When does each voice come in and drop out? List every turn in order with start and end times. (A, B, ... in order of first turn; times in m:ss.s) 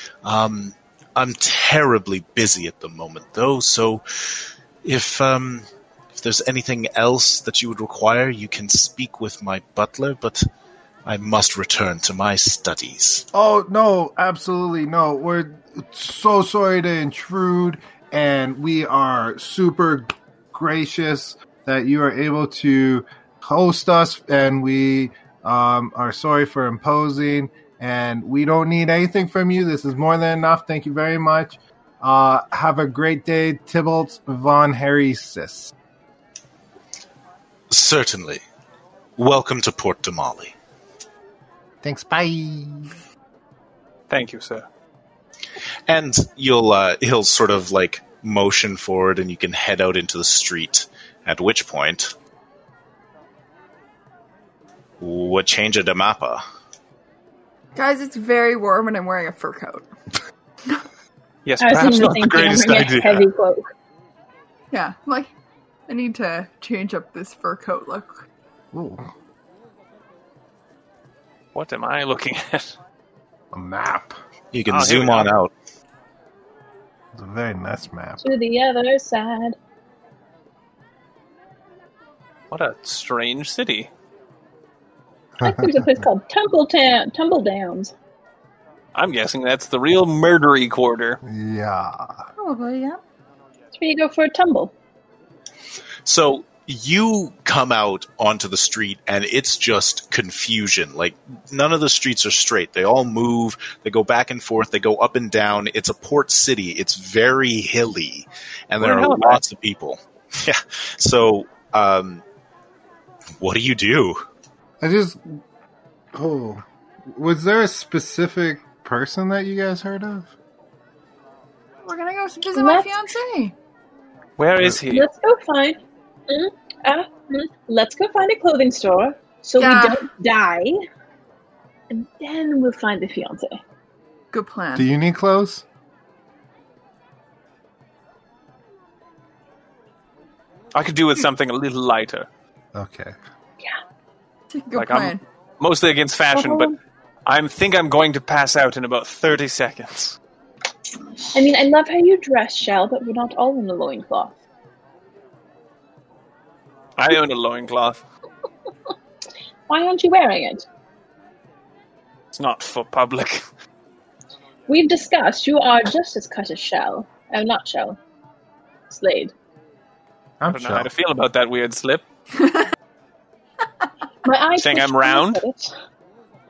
0:00.2-0:10.4 A
0:11.0-0:13.2 A
0:13.3-0:35.7 B
0:37.7-0:38.4 A
0:39.2-0:40.5 A
0:41.8-0:43.0 B
0:44.1-0:44.6 C
0:45.9-0:52.1 A
0:55.0-0:56.4 A
0:57.7-0:59.9 D
1:01.4-1:03.2 C
1:01.6-1:03.6 E
1:04.7-1:05.3 D
1:05.9-1:08.2 D
1:08.7-1:09.1 B
1:11.5-1:12.7 C
1:13.5-1:14.2 B
1:14.5-1:15.5 A
1:14.7-1:15.3 C
1:17.1-1:18.2 B
1:18.2-1:19.6 E
1:22.5-1:23.9 C
1:25.4-1:26.0 B
1:25.4-1:27.9 E
1:28.9-1:31.2 C
1:31.2-1:32.2 B
1:32.4-1:33.0 D
1:33.7-1:34.7 E
1:36.0-1:52.2 A
1:48.8-1:49.4 C
1:53.4-1:54.2 A
1:54.8-1:55.4 B
1:56.1-2:00.3 B
2:01.8-2:03.5 D
2:02.5-2:03.0 E
2:04.4-2:05.0 C
2:04.9-2:10.8 E
2:09.6-2:10.0 D
2:11.9-2:13.6 E
2:14.3-2:14.8 D
2:14.7-2:15.6 B
2:20.7-2:22.3 C
2:22.7-2:23.1 B
2:24.5-2:25.2 D
2:24.7-2:26.7 C
2:26.3-2:26.8 E
2:27.2-2:30.2 C
2:31.3-2:34.3 E
2:37.0-2:38.0 C
2:39.7-2:40.6 E
2:42.3-2:43.4 C
2:44.7-2:48.0 E
2:48.9-2:49.3 E
2:50.4-2:50.9 B
2:50.5-2:52.0 C
2:52.4-2:52.7 D
2:54.2-2:55.7 E
2:54.6-2:55.4 C